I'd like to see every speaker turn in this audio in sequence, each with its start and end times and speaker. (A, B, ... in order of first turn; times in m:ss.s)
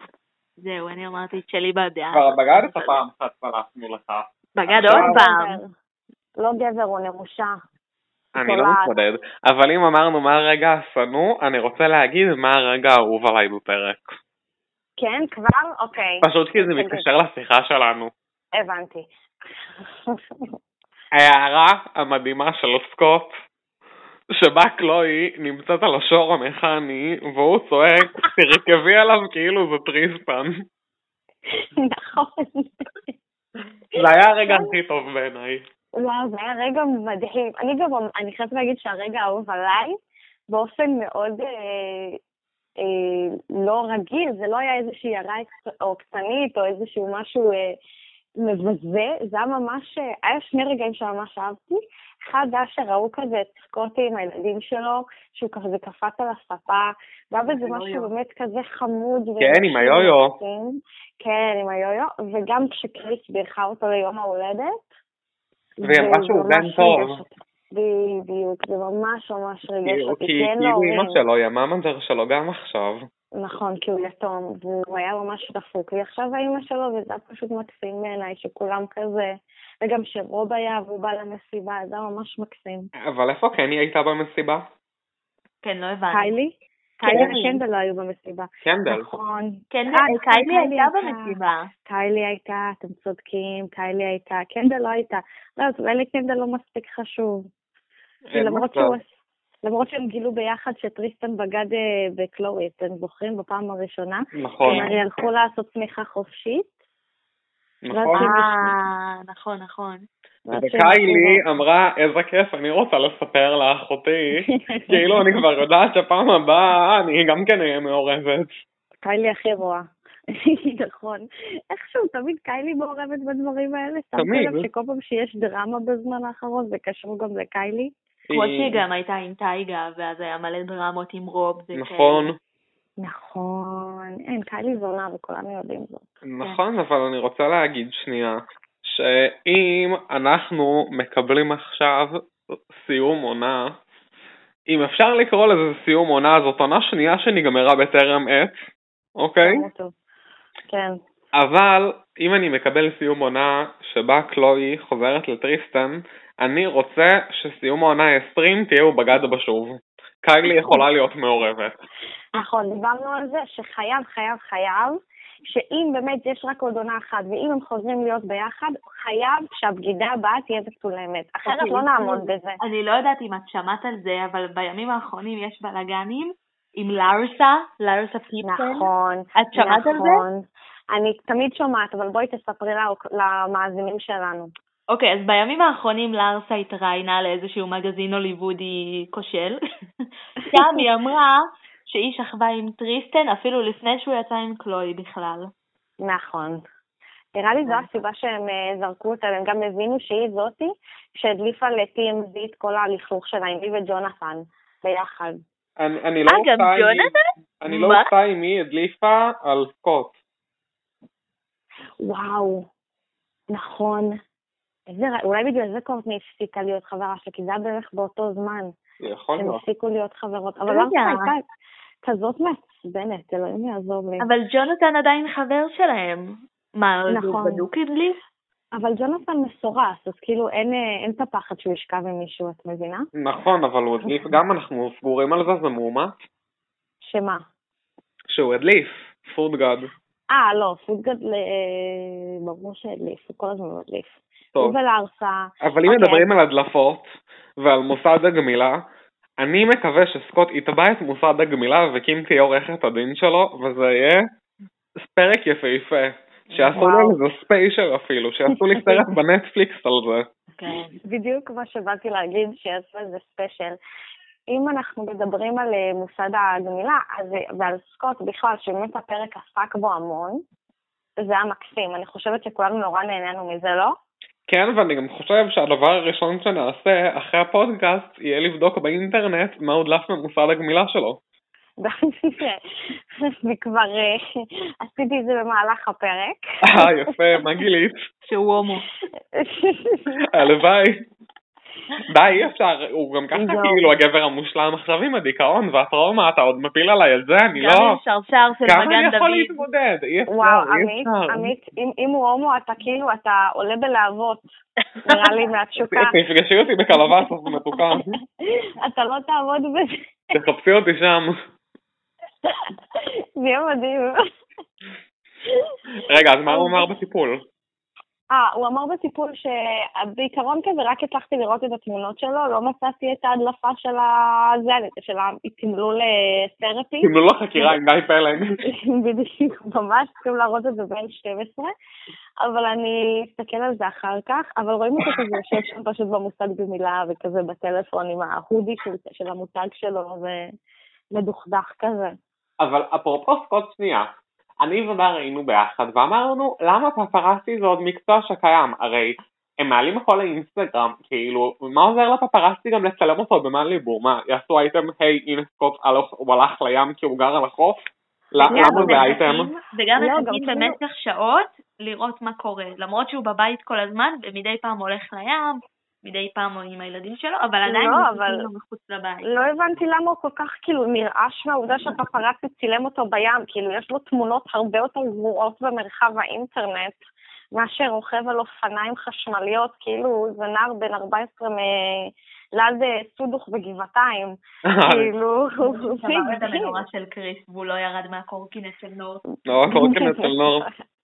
0:00.6-0:02.9 A
0:02.1-0:05.1 B
0:04.6-0:05.6 A
0:04.8-0:05.7 C
0:06.4-0:07.6 C
0:08.4-0:14.2 B
0:08.4-0:09.0 C
0:15.0-0:17.0 C
0:16.2-0:18.1 B
0:18.6-0:19.1 C
0:21.1-0:23.3 B
0:24.3-0:30.6 B
0:31.8-0:32.9 C
0:34.0-0:35.6 B
0:34.4-0:34.7 C
0:36.0-0:40.0 C
0:40.5-0:42.2 C
0:42.8-0:47.6 C
0:48.4-1:04.8 C
0:57.5-0:58.1 A
0:59.4-1:00.4 B
1:05.8-1:11.2 C
1:05.8-1:07.2 B
1:09.8-1:13.1 B
1:13.4-1:22.9 C
1:23.0-1:24.7 B
1:25.6-1:26.3 A
1:26.1-1:31.4 C
1:27.0-1:27.6 A
1:27.1-1:27.4 B
1:28.6-1:29.1 B
1:29.7-1:31.7 A
1:31.9-1:37.5 C
1:38.3-1:39.0 B
1:38.3-1:39.1 C
1:39.6-1:46.7 C
1:44.4-1:45.3 B
1:44.7-1:45.0 A
1:47.8-1:48.4 B
1:47.9-1:48.7 C
1:48.2-1:50.1 A
1:50.5-1:51.4 C
1:50.5-1:58.5 B
1:54.5-1:55.2 C
1:59.0-2:07.9 C
2:04.2-2:04.7 B
2:08.3-2:08.8 B
2:08.3-2:12.3 A
2:11.8-2:12.4 B
2:13.0-2:16.0 C
2:16.3-2:22.2 B
2:22.8-2:23.7 B
2:24.7-2:28.5 B
2:29.2-2:29.6 B
2:29.4-2:29.9 C
2:30.7-2:31.0 C
2:31.4-2:41.8 B
2:42.3-2:52.6 C
2:51.5-3:00.2 A
2:58.5-3:04.5 C
3:04.9-3:09.6 A
3:10.5-3:15.5 A
3:10.5-3:10.8 C
3:16.0-3:16.6 C
3:17.4-3:25.4 C
3:25.8-3:30.2 B
3:26.3-3:28.1 A
3:32.0-3:32.7 C
3:33.5-3:34.2 C
3:34.9-3:38.7 C
3:39.0-3:39.6 B
3:39.4-3:41.4 C
3:40.7-3:41.3 A
3:42.0-3:44.3 C
3:44.2-3:48.2 A
3:47.1-3:47.7 C
3:48.8-3:53.1 C
3:53.2-3:56.1 B
3:57.0-3:57.4 C
3:58.3-3:59.9 B
4:00.3-4:06.3 C
4:05.6-4:08.8 B
4:09.4-4:14.2 B
4:15.0-4:20.3 B
4:16.7-4:17.2 C
4:18.7-4:19.0 C
4:20.6-4:21.0 A
4:21.0-4:23.8 C
4:24.5-4:30.4 C
4:31.2-4:34.0 C
4:34.5-4:41.2 B
4:41.8-4:42.6 C
4:43.4-4:44.2 C
4:44.8-4:46.9 C
4:46.7-4:48.0 B
4:48.3-4:48.9 A
4:49.4-4:50.2 C
4:50.3-4:51.0 B
4:52.1-4:58.0 B
4:53.3-4:53.9 C
4:57.6-4:59.6 A
4:58.6-5:01.5 B
5:00.3-5:04.5 C
5:05.1-5:06.2 C
5:05.9-5:08.2 B
5:08.8-5:09.9 C
5:10.3-5:11.4 B
5:12.4-5:14.2 C
5:16.1-5:17.4 B
5:16.5-5:16.9 C
5:18.3-5:27.8 C
5:27.0-5:28.6 B
5:28.6-5:31.7 C
5:32.4-5:40.5 C
5:35.0-5:35.4 B
5:41.1-5:42.2 C
5:42.6-5:44.1 B
5:44.6-5:59.5 B
5:58.4-5:59.1 C
5:58.5-6:09.3 A
6:00.0-6:00.8 C
6:07.7-6:08.5 C
6:09.2-6:17.0 C
6:17.6-6:26.8 C
6:24.7-6:25.1 B
6:25.6-6:29.2 A
6:29.5-6:30.7 B
6:29.7-6:30.7 C